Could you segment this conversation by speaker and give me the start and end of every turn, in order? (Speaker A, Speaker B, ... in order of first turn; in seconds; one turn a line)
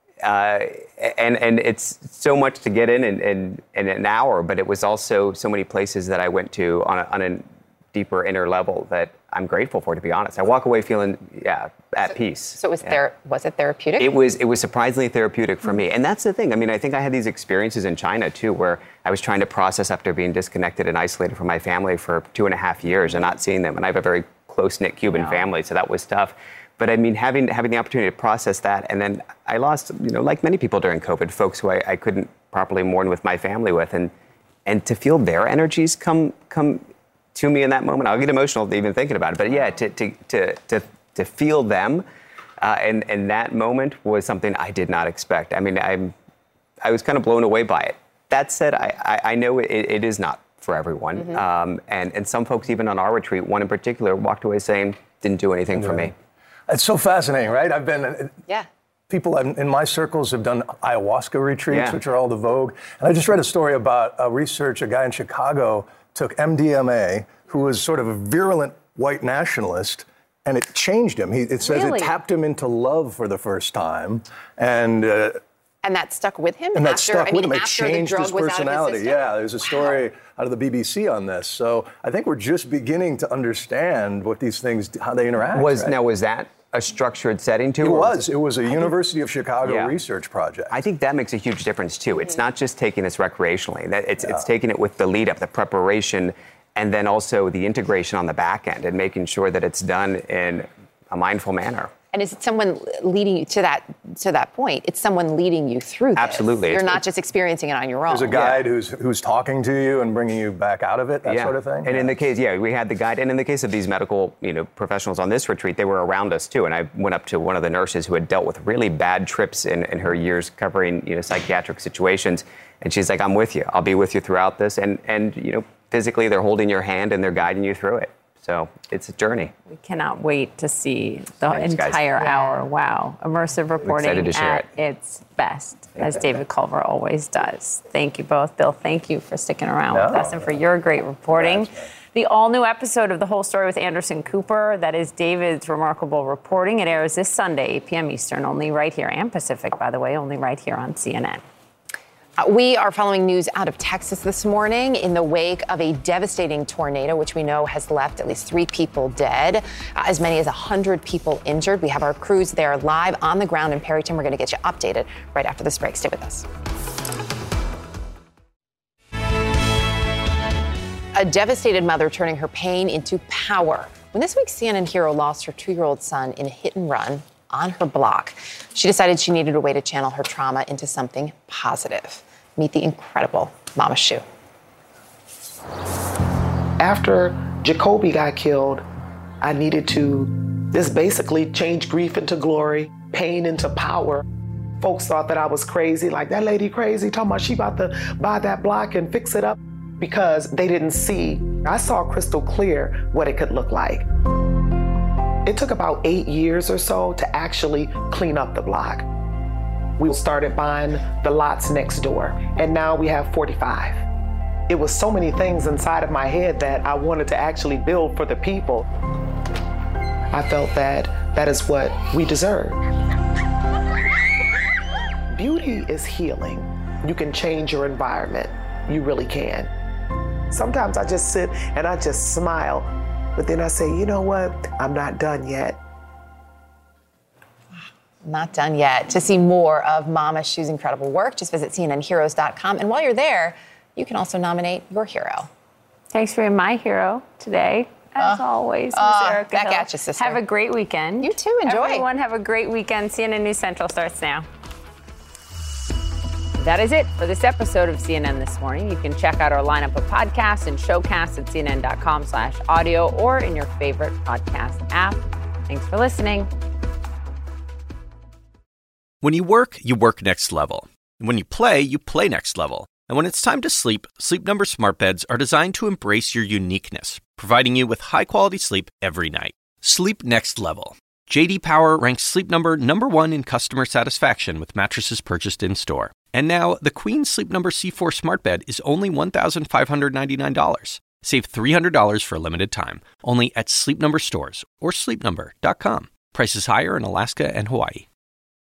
Speaker A: 0.2-13.0
Speaker B: 12.6-14.2
Speaker A: 14.0-34.1
Speaker B: 25.1-25.4
Speaker A: 34.7-36.8
Speaker A: 37.4-42.0
Speaker A: 42.6-46.1
Speaker A: 46.8-56.1
Speaker C: 55.8-56.1
Speaker C: 56.7-58.3
Speaker C: 59.1-75.4
Speaker A: 61.7-62.0
Speaker D: 71.6-72.1
Speaker B: 75.8-80.0
Speaker C: 76.8-85.9
Speaker A: 85.5-88.2
Speaker C: 87.8-90.7
Speaker A: 89.7-89.9
Speaker A: 90.7-101.9
Speaker B: 102.1-108.6
Speaker A: 106.2-107.0
Speaker C: 108.1-112.0
Speaker A: 108.3-108.6
Speaker A: 111.2-129.5
Speaker D: 129.7-151.4
Speaker A: 131.4-132.0
Speaker B: 132.2-132.6
Speaker A: 133.8-134.7
Speaker C: 140.0-140.4
Speaker C: 141.3-141.8
Speaker B: 152.4-166.4
Speaker B: 171.1-184.2
Speaker E: 186.8-188.9
Speaker E: 189.4-194.2
Speaker E: 194.8-204.1
Speaker E: 205.4-209.1
Speaker E: 210.0-214.1
Speaker E: 214.7-218.9
Speaker E: 220.3-222.8
Speaker E: 225.3-229.7
Speaker E: 230.5-235.8
Speaker B: 238.2-245.5
Speaker D: 246.1-254.5
Speaker B: 248.9-250.4
Speaker B: 251.2-252.1
Speaker D: 256.6-266.5
Speaker F: 269.2-298.1